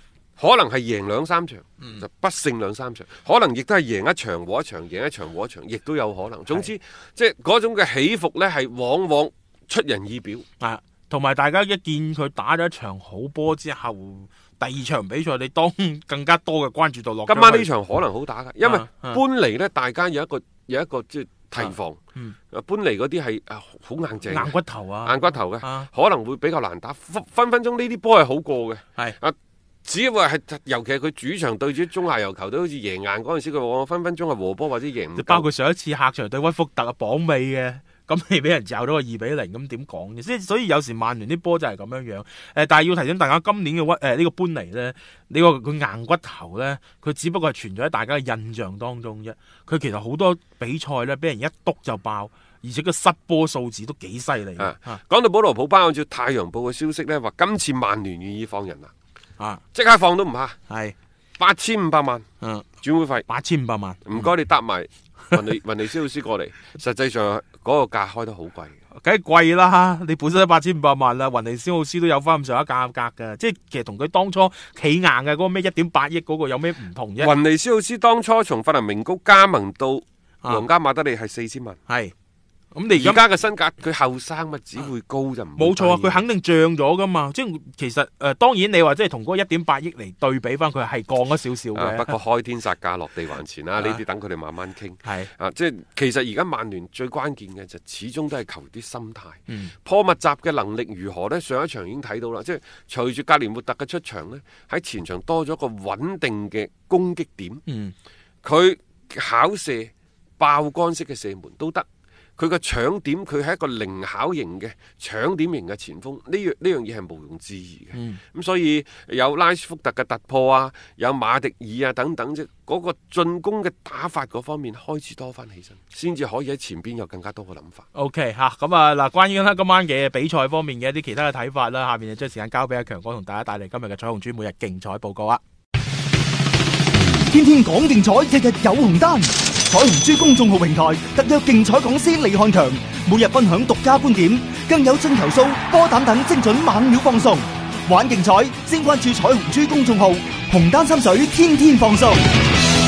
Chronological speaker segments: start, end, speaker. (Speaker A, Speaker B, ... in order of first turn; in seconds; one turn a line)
Speaker A: 0.4-10.4
Speaker B: 10.6-17.7
Speaker A: 17.3-22.0
Speaker B: 18.6-19.2
Speaker B: 21.6-22.3
Speaker A: 22.5-24.5
Speaker B: 24.3-25.9
Speaker A: 25.0-35.4
Speaker B: 35.1-55.0
Speaker A: 54.6-58.9
Speaker A: 59.7-60.6
Speaker B: 60.7-60.9
Speaker A: 61.4-62.2
Speaker B: 62.4-62.7
Speaker A: 62.8-63.2
Speaker B: 63.3-64.0
Speaker A: 64.0-68.8
Speaker B: 69.0-77.3
Speaker A: 77.2-81.8
Speaker B: 81.9-82.1
Speaker B: 82.7-83.2
Speaker A: 82.9-86.2
Speaker B: 85.6-92.1
Speaker A: 91.7-107.6
Speaker B: 95.0-95.3
Speaker B: 107.7-107.9
Speaker A: 108.4-111.8
Speaker A: 112.4-127.8
Speaker B: 117.9-118.2
Speaker B: 127.9-135.4
Speaker C: 137.4-138.5
Speaker C: 140.3-140.8
Speaker C: 141.4-142.5
Speaker C: 143.7-144.1
Speaker C: 146.1-146.7
Speaker C: 148.2-149.2